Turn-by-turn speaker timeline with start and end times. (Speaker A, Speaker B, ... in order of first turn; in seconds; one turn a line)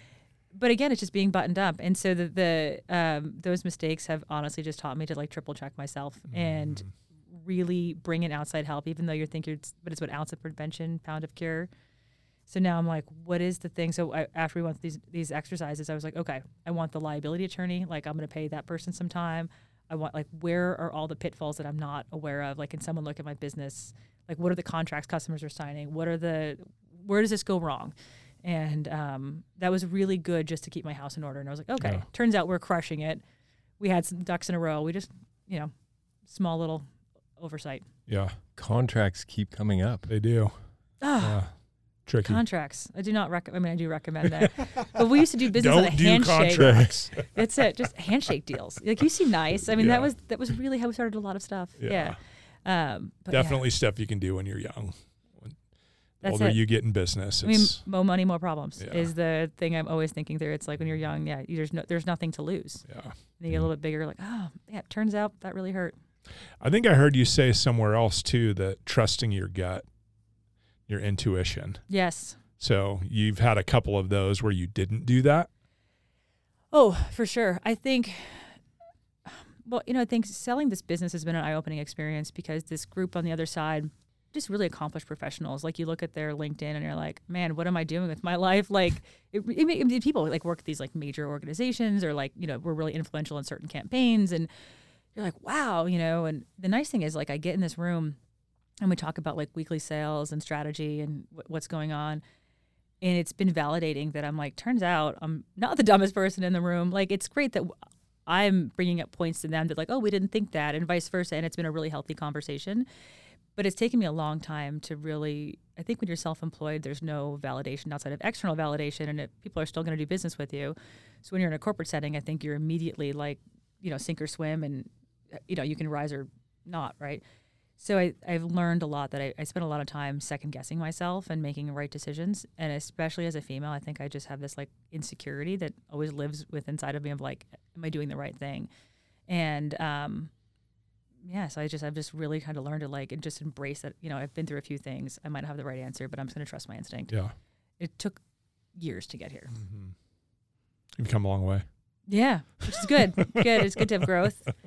Speaker A: 0.5-11.7
Speaker B: 6.3-6.9
Speaker A: 12.5-33.2
Speaker A: 33.8-35.7
Speaker A: 36.2-36.9
Speaker A: 37.4-37.9
Speaker B: 38.1-38.4
Speaker C: 38.6-40.1
Speaker B: 40.1-40.6
Speaker A: 41.0-41.5
Speaker B: 41.2-41.5
Speaker B: 42.1-42.4
Speaker A: 42.2-53.6
Speaker B: 44.4-45.0
Speaker B: 45.5-47.4
Speaker C: 46.6-47.1
Speaker B: 49.8-50.1
Speaker B: 51.8-52.2
Speaker B: 53.3-55.6
Speaker B: 56.2-57.9
Speaker A: 56.2-56.6
Speaker A: 57.4-62.9
Speaker B: 58.8-59.1
Speaker B: 62.9-63.2
Speaker A: 63.4-66.0
Speaker B: 66.6-69.8
Speaker B: 70.9-71.9
Speaker A: 71.9-72.4
Speaker B: 72.6-75.5
Speaker A: 76.7-78.6
Speaker A: 79.3-94.5
Speaker A: 95.2-98.2
Speaker A: 98.8-102.2
Speaker A: 103.0-107.7
Speaker A: 108.3-112.9
Speaker A: 113.6-127.2
Speaker A: 127.8-138.7
Speaker A: 139.3-140.3
Speaker A: 141.2-147.2
Speaker B: 147.1-147.3
Speaker A: 147.8-148.2
Speaker A: 148.7-149.5
Speaker B: 149.5-149.9
Speaker B: 151.0-151.7
Speaker A: 152.1-154.5
Speaker B: 152.7-153.7